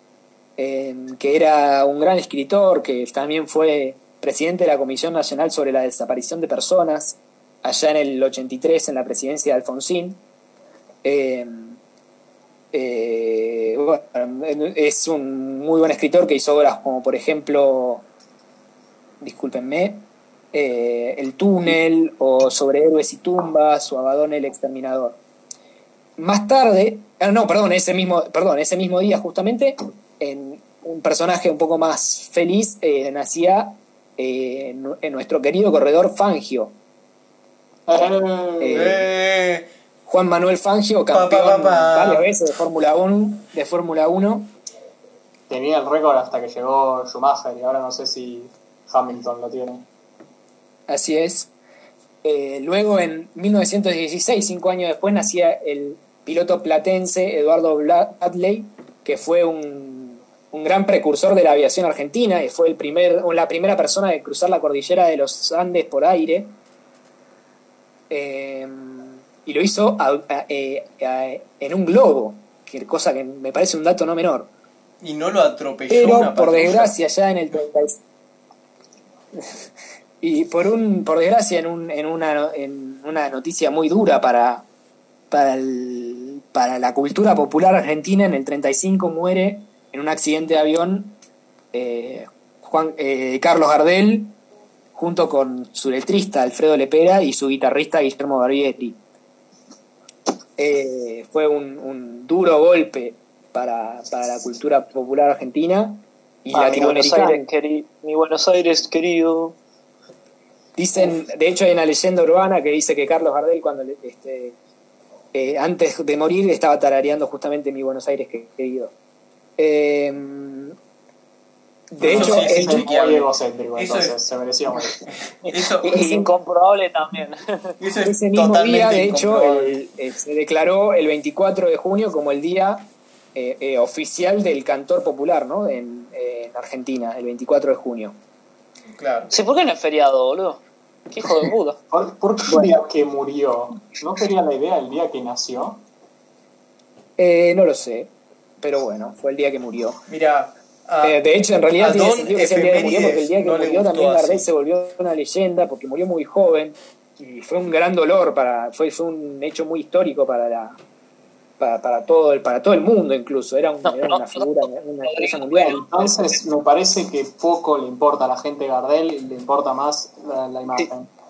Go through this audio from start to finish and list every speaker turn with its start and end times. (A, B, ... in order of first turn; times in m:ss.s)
0:00.6-0:10.2 A
0:11.0-0:11.8 A
0:12.7-0:18.1 A
0:19.2-0:25.2 A
0:26.2-0:36.8 A
0:37.9-0:38.9 B
0:38.6-0:39.1 A
0:38.7-0:39.7 C
0:40.1-0:44.5 A
0:41.1-0:42.3 C
0:45.5-0:49.8 B
0:50.9-0:51.5 A
0:52.2-1:06.6 A
1:08.1-1:14.5 A
1:15.0-1:16.9 C
1:15.9-1:18.0 A
1:20.2-1:24.7 A
1:25.3-1:31.2 A
1:31.7-1:34.4 A
1:35.0-1:39.0 A
1:40.6-1:47.5 A
1:46.5-1:49.6 D
1:50.8-1:54.6 A
1:55.3-1:58.9 A
1:59.6-2:00.8 A
2:01.9-2:02.8 A
2:02.0-2:05.0 B
2:02.0-2:04.2 C
2:05.5-2:06.0 C
2:05.5-2:07.7 D
2:05.8-2:06.3 A
2:07.8-2:09.8 C
2:08.0-2:18.2 A
2:19.0-2:19.4 C
2:19.3-2:21.8 D
2:21.9-2:25.8 B
2:22.5-2:22.8 A
2:27.2-2:30.0 A
2:30.1-2:31.2 C
2:31.0-2:40.8 A
2:31.8-2:34.5 C
2:41.6-2:46.2 A
2:43.8-2:45.8 D
2:45.6-2:51.1 B